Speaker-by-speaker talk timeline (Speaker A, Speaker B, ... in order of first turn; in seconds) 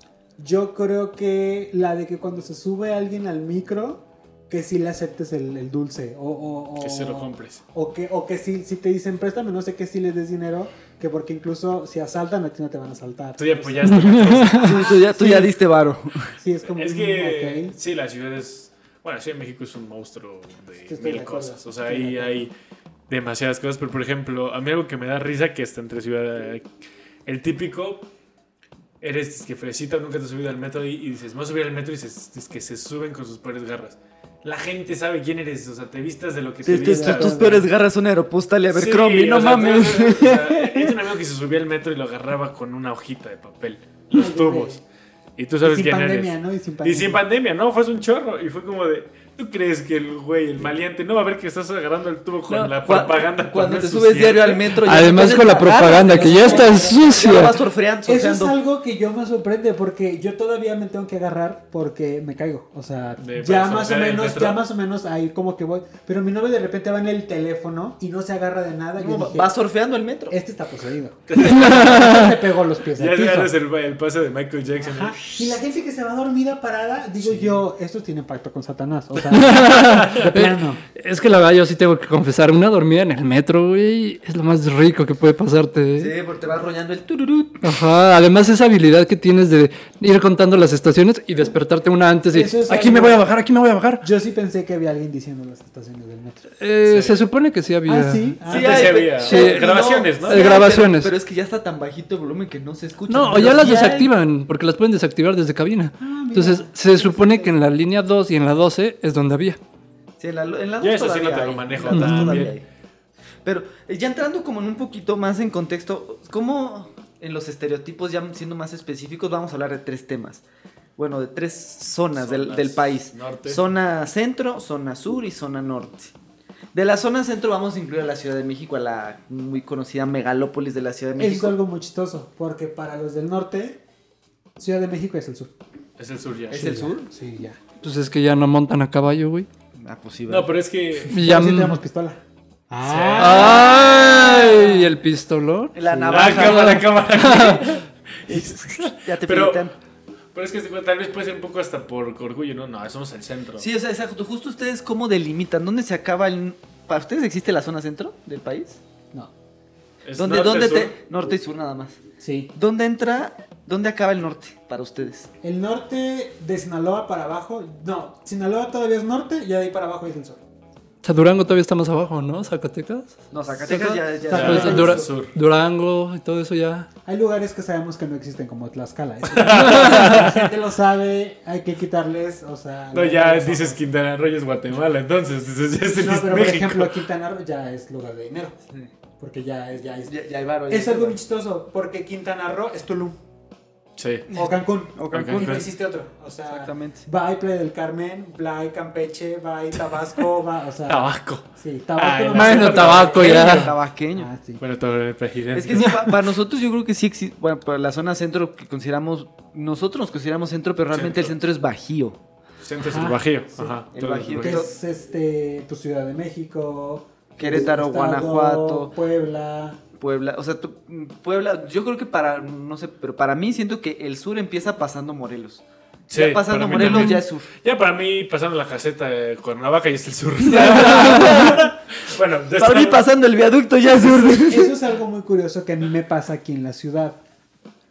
Speaker A: 0.4-15.6, 16.4-17.7, 20.9-22.3, 36.7-37.7, 44.1-44.8, 45.6-47.2, 55.5-57.1, 58.0-69.5, 70.3-73.5, 74.8-80.8, 92.3-93.2, 94.0-96.5, 97.9-99.0, 103.4-103.9, 106.0-107.6, 131.2-133.8, 134.6-135.5, 136.5-137.6, 141.2-142.2, 142.7-144.9, 145.8-146.4, 162.2-162.5, 165.4-170.4, 173.6-175.1, 177.1-183.8, 185.9-188.6, 189.2-190.1, 190.7-193.2, 194.3-203.3, 204.2-204.6, 205.8-206.1, 212.8-219.8, 234.5-237.2
Speaker B: 6.8-7.6, 13.4-15.0, 16.8-22.5, 23.1-26.6, 27.2-28.1, 29.0-37.6, 38.7-44.8, 45.4-54.8, 63.2-64.6, 71.3-72.2, 73.0-75.5, 77.2-77.6, 80.0-80.2, 96.9-97.3, 98.5-100.6, 110.8-112.5, 122.1-123.6, 136.0-136.9, 140.3-141.2, 142.8-143.7, 146.1-149.7, 150.3-153.7, 160.1-160.9, 174.3-175.3, 179.3-180.3, 182.9-186.9, 194.0-194.2, 195.1-195.7, 200.9-201.4, 202.0-203.8, 204.6-206.0, 210.9-211.3, 212.6-214.6, 226.1-233.1
Speaker C: 13.8-14.7, 54.8-57.6, 71.5-72.3, 79.3-86.2, 87.6-94.0, 96.6-98.4, 99.2-101.1, 103.1-109.6, 111.9-112.5, 137.8-139.5, 141.1-141.8, 143.2-145.8, 146.4-147.8, 171.0-176.9, 179.7-180.1, 202.3-203.7, 226.8-227.2, 230.9-231.2
Speaker D: 14.6-16.3, 36.6-41.0, 52.5-58.6, 69.0-70.3, 86.0-87.6, 98.5-104.1, 110.2-112.6, 113.5-120.4, 121.0-126.1, 126.7-131.6, 136.5-137.1, 139.8-140.5, 143.5-144.1, 145.7-146.9, 148.3-149.8, 153.6-158.8, 160.2-162.0, 162.6-165.3, 173.3-175.0, 190.1-191.2, 194.3-195.8, 196.5-197.1, 203.1-204.3, 205.5-212.2, 213.9-214.7, 217.4-218.9, 220.0-227.5, 230.4-231.7, 232.6-234.7